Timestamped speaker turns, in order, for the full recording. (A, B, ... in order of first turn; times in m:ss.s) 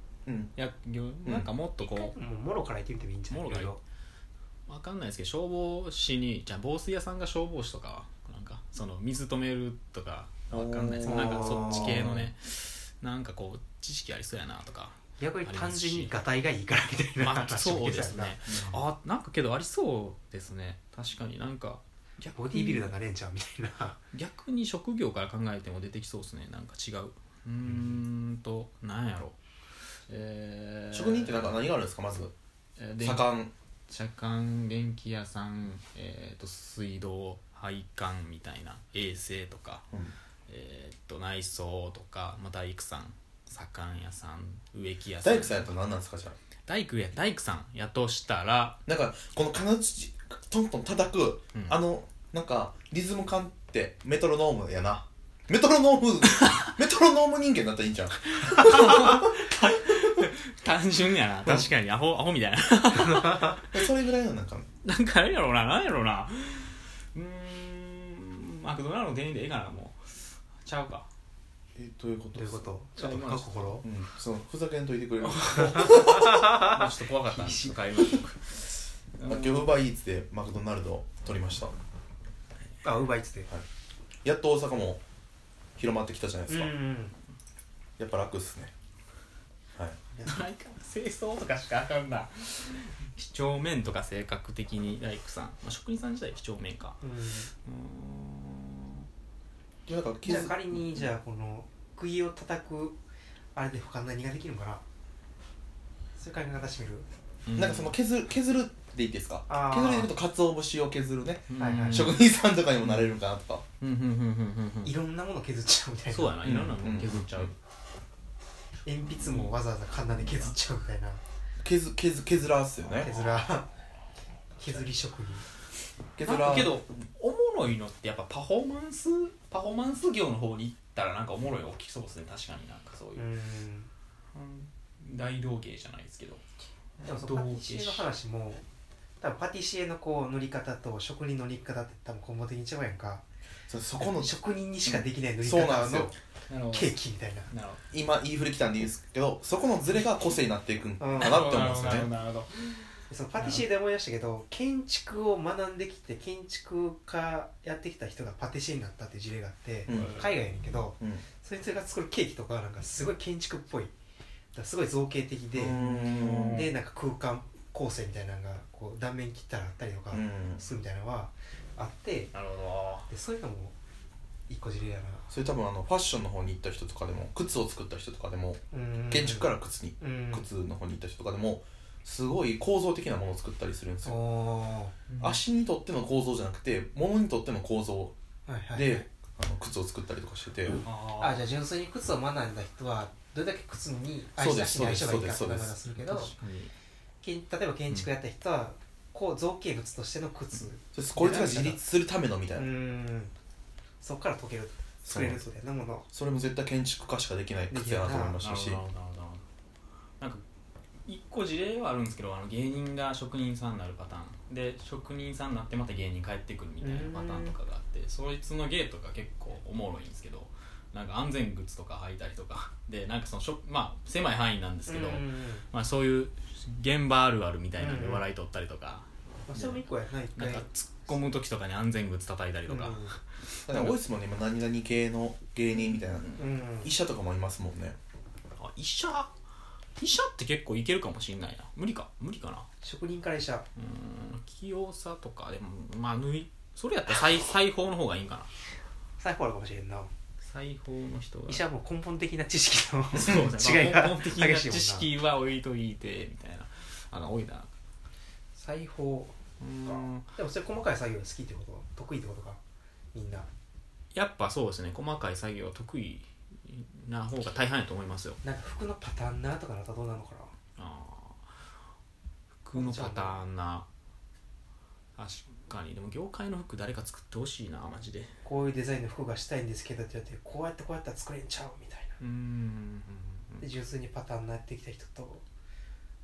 0:00.2-0:00.5 A
0:00.6-0:02.1 B
0:01.2-0:01.5 A
0:01.8-0:03.8 C
0:03.3-0:03.7 B
0:04.7-0:16.1 B
0:10.5-0:12.3 A
0:11.0-0:12.0 C
0:15.2-0:18.4 C
0:17.2-0:22.9 B
0:18.5-0:18.8 A
0:22.3-0:24.0 C
0:24.1-0:29.4 B
0:27.6-0:28.0 A
0:30.1-0:31.6 B
0:30.9-0:32.3 A
0:32.8-0:33.2 B
0:33.0-0:33.5 A
0:33.9-0:39.8 B
0:40.5-0:45.7 B
0:45.2-0:46.4 A
0:46.7-0:48.8 B
0:48.9-1:00.0 A
0:51.5-0:51.8 B
0:56.4-0:56.7 B
0:58.3-1:03.7 B
1:03.6-1:04.7 A
1:04.8-1:11.1 B
1:11.8-1:12.6 A
1:12.3-1:13.8 C
1:13.0-1:13.8 B
1:13.8-1:16.3 A
1:15.3-1:18.6 B
1:15.6-1:17.8 C
1:19.1-1:19.7 B
1:19.2-1:21.7 A
1:22.8-1:23.5 C
1:24.2-1:25.0 A
1:25.8-1:26.7 A
1:26.5-1:27.1 C
1:28.0-1:28.7 A
1:30.2-1:37.0 B
1:37.0-1:37.5 C
1:37.6-1:39.0 B
1:39.9-1:41.0 A
1:40.2-1:43.0 C
1:43.5-1:44.8 C
1:46.2-1:47.0 C
1:47.4-1:48.0 B
1:47.5-1:53.6 A
1:49.5-1:50.1 C
1:51.5-1:52.2 B
1:51.6-1:52.1 C
1:52.8-1:53.1 B
1:53.8-1:54.9 B
1:54.8-1:56.5 C
1:56.1-1:57.5 B
1:56.4-1:57.5 A
1:58.8-2:01.2 C
1:59.1-1:59.5 B
2:01.6-2:03.1 A
2:03.0-2:03.7 C
2:04.6-2:05.5 C
2:06.2-2:06.8 A
2:06.2-2:13.2 B
2:13.2-2:13.9 C
2:14.3-2:16.4 B
2:17.0-2:18.0 B
2:17.0-2:18.6 C
2:19.2-2:23.2 C
2:23.7-2:24.3 A
2:24.0-2:26.2 C
2:24.8-2:26.1 A
2:26.5-2:27.0 B
2:26.7-2:27.5 C
2:27.5-2:27.8 B
2:27.9-2:32.1 A
2:29.8-2:30.2 C
2:31.0-2:31.4 C
2:31.2-2:33.6 B
2:33.1-2:43.9 C
2:39.9-2:40.2 A
2:39.9-2:40.3 B
2:44.5-2:45.8 C
2:45.5-2:46.6 A
2:45.7-2:46.7 B
2:46.4-2:52.3 C
2:50.1-2:50.6 A
2:52.3-2:53.1 B
2:53.1-2:53.7 C
2:54.5-2:55.2 C
2:55.3-3:04.2 A
2:58.7-3:00.4 C
3:04.0-3:05.0 C
3:05.1-3:05.4 B
3:05.2-3:08.1 A
3:08.5-3:09.0 C
3:08.7-3:10.8 A
3:10.8-3:11.4 B
3:11.2-3:16.3 C
3:14.4-3:15.7 A
3:16.0-3:16.7 B
3:17.2-3:21.8 C
3:20.9-3:22.7 A
3:22.5-3:23.3 C
3:24.0-3:26.0 C
3:25.0-3:25.4 A
3:26.1-3:28.8 A
3:27.7-3:28.4 C
3:28.4-3:29.4 B
3:31.0-3:49.8 B
3:36.8-3:37.6 C
3:44.9-3:45.6 C
3:47.8-3:48.2 C
3:49.4-3:50.6 C
3:50.4-3:54.0 B
3:52.7-3:53.2 C
3:53.7-3:58.0 A
3:55.9-3:56.4 B
3:56.3-3:56.9 C
3:58.6-3:59.3 B
4:00.0-4:02.6 B
4:02.8-4:03.6 C
4:03.8-4:08.5 B
4:09.2-4:10.1 C
4:10.4-4:11.6 B
4:11.5-4:15.1 C
4:13.1-4:17.7 B
4:18.5-4:22.6 C
4:19.6-4:20.3 B
4:23.1-4:23.5 C
4:24.1-4:28.4 B
4:28.4-4:30.5 C
4:30.8-4:31.4 B
4:32.6-4:33.8 B
4:32.7-4:33.4 C
4:35.2-4:38.3 B
4:38.4-4:42.2 C
4:42.2-4:43.6 B
4:43.6-4:45.4 C